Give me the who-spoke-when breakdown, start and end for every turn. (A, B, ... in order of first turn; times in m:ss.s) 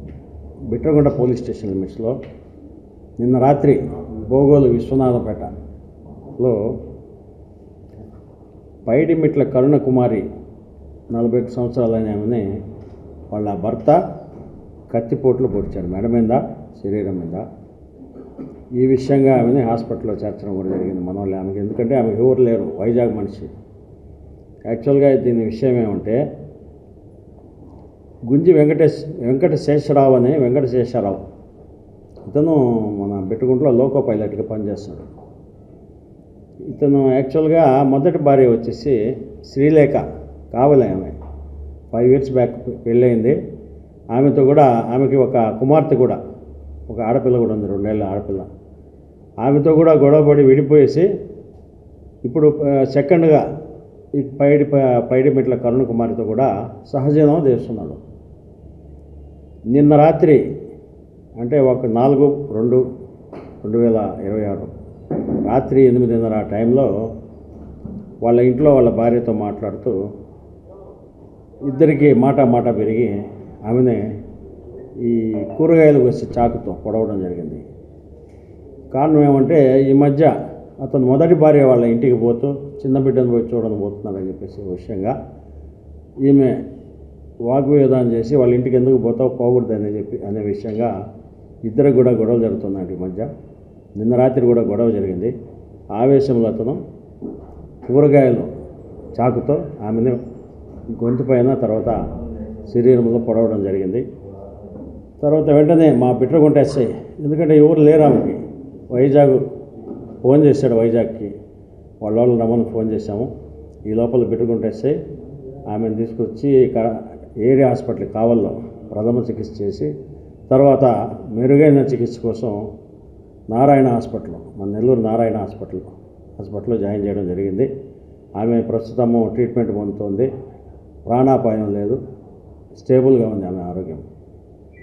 0:00.7-0:02.2 A
0:03.2-0:05.5 A
0:08.9-0:10.2 A
0:11.1-0:12.5 A
0:13.3-0:14.0 A
0:14.9-0:17.4 A
0:18.8-0:23.5 A
0:24.7-0:26.2 A
0:28.3-0:31.2 A
0:32.2-0:35.1 A
0:36.7-0:41.2 A
0:41.9-0:43.4 A
0:44.1-0:46.2 A
0:46.9-0:48.5 A
0:49.4-0:51.1 A
0:52.2-0:53.4 A
0:54.2-0:58.0 A
0:59.7-1:00.4 A
1:01.4-1:02.8 A
1:03.6-1:04.7 A
1:05.4-1:06.9 A
1:08.2-1:10.0 A
1:11.7-1:14.1 A
1:15.0-1:17.6 A
1:18.9-1:25.2 A
1:26.2-1:26.6 A
1:27.4-1:30.9 A
1:31.6-1:33.3 A
1:34.0-1:35.3 A
1:35.9-1:36.8 A
1:37.9-1:38.5 A
1:39.2-1:40.2 A
1:40.9-1:42.0 A
1:42.6-1:44.0 A
1:45.2-1:49.4 A
1:50.2-1:51.3 A
1:52.0-1:53.3 A
1:53.9-1:55.0 A
1:55.7-1:59.9 A
2:00.5-2:02.6 A
2:03.5-2:07.7 A
2:08.4-2:10.3 A
2:11.1-2:12.0 A
2:12.8-2:14.0 A